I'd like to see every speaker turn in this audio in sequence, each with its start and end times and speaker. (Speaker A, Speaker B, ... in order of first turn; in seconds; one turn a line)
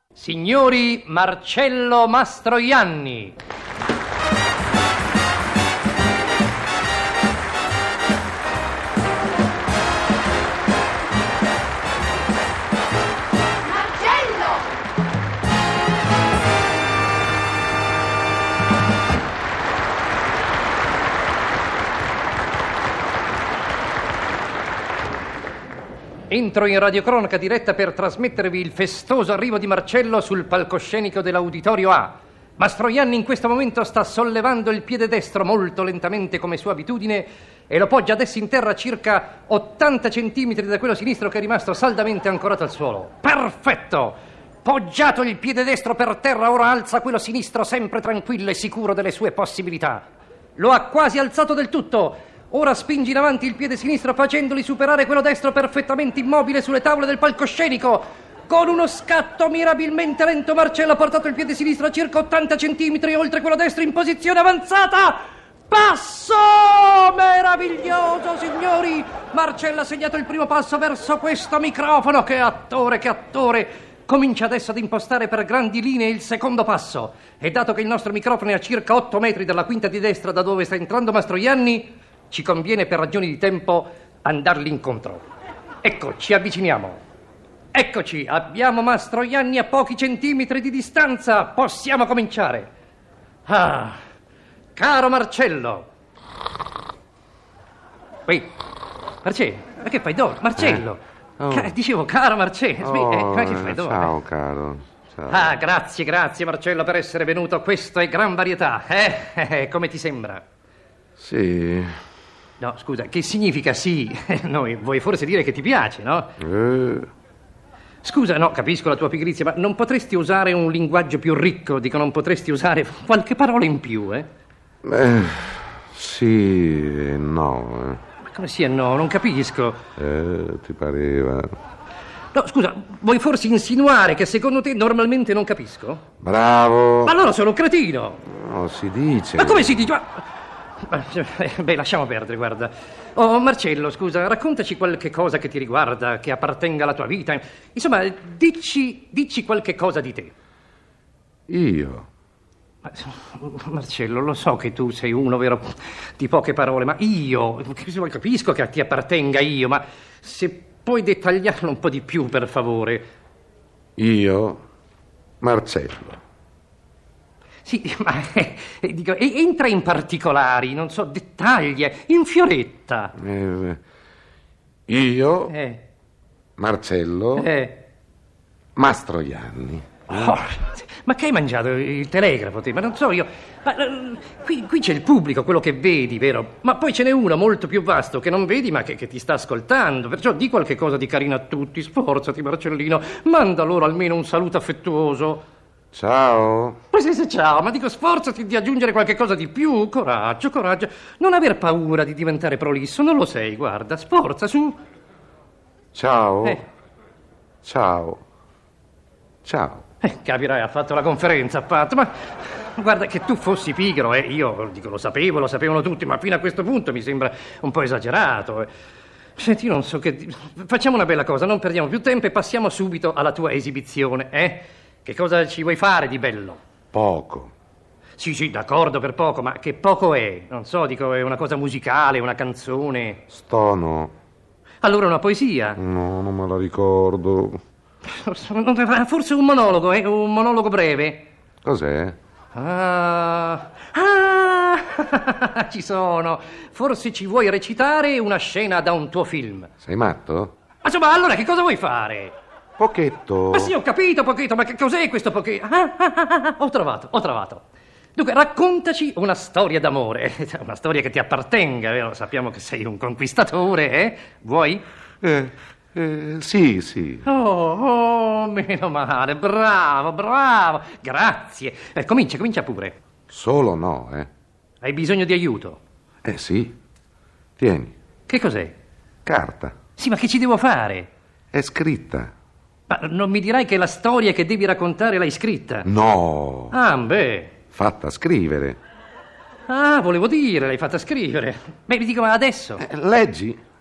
Speaker A: 0.1-3.4
Speaker A: 26.3-85.2
Speaker A: 85.8-87.0
Speaker A: 87.7-92.7
Speaker A: 93.5-94.0
Speaker A: 94.8-95.9
Speaker A: 98.3-98.5
Speaker A: 99.2-104.1
Speaker B: 100.6-100.8
Speaker B: 101.4-101.7
Speaker B: 102.8-105.5
Speaker A: 105.3-110.4
Speaker B: 111.2-112.0
Speaker A: 112.6-116.3
Speaker B: 116.4-117.1
Speaker A: 118.0-124.3
Speaker B: 124.8-128.0
Speaker A: 128.2-129.8
Speaker B: 130.0-131.5
Speaker A: 132.3-136.0
Speaker B: 136.2-137.2
Speaker A: 137.0-138.2
Speaker B: 138.2-139.9
Speaker A: 139.4-140.2
Speaker A: 140.8-150.3
Speaker B: 151.5-152.1
Speaker A: 152.8-163.1
Speaker B: 164.0-164.6
Speaker B: 165.4-166.2
Speaker A: 167.6-173.1
Speaker B: 173.2-173.8
Speaker B: 174.9-175.5
Speaker A: 175.5-175.8
Speaker B: 176.6-177.5
Speaker A: 177.3-177.8
Speaker B: 178.8-180.4
Speaker A: 180.1-195.4
Speaker B: 195.9-196.8
Speaker A: 196.9-204.8
Speaker B: 205.9-206.6
Speaker B: 207.6-208.2
Speaker B: 209.4-209.8
Speaker A: 210.0-218.7
Speaker A: 219.4-226.6
Speaker B: 226.9-227.5
Speaker A: 228.2-233.2
Speaker B: 233.3-234.1
Speaker A: 234.8-235.8
Speaker B: 235.8-237.6
Speaker A: 238.0-241.3
Speaker B: 241.6-242.2
Speaker A: 242.5-249.7
Speaker B: 249.8-250.5
Speaker A: 250.8-252.3
Speaker B: 252.8-253.7
Speaker A: 253.5-257.6
Speaker A: 258.2-264.8
Speaker B: 265.2-267.2
Speaker A: 267.2-273.0
Speaker B: 273.3-274.3
Speaker A: 274.8-275.8
Speaker B: 276.2-276.8
Speaker B: 277.6-277.9
Speaker A: 278.3-278.7
Speaker B: 279.2-279.8
Speaker A: 280.0-281.1
Speaker B: 281.5-282.3
Speaker A: 282.9-285.9
Speaker B: 285.9-286.8
Speaker A: 286.7-287.5
Speaker B: 287.7-288.8
Speaker A: 289.7-292.9
Speaker B: 292.8-293.6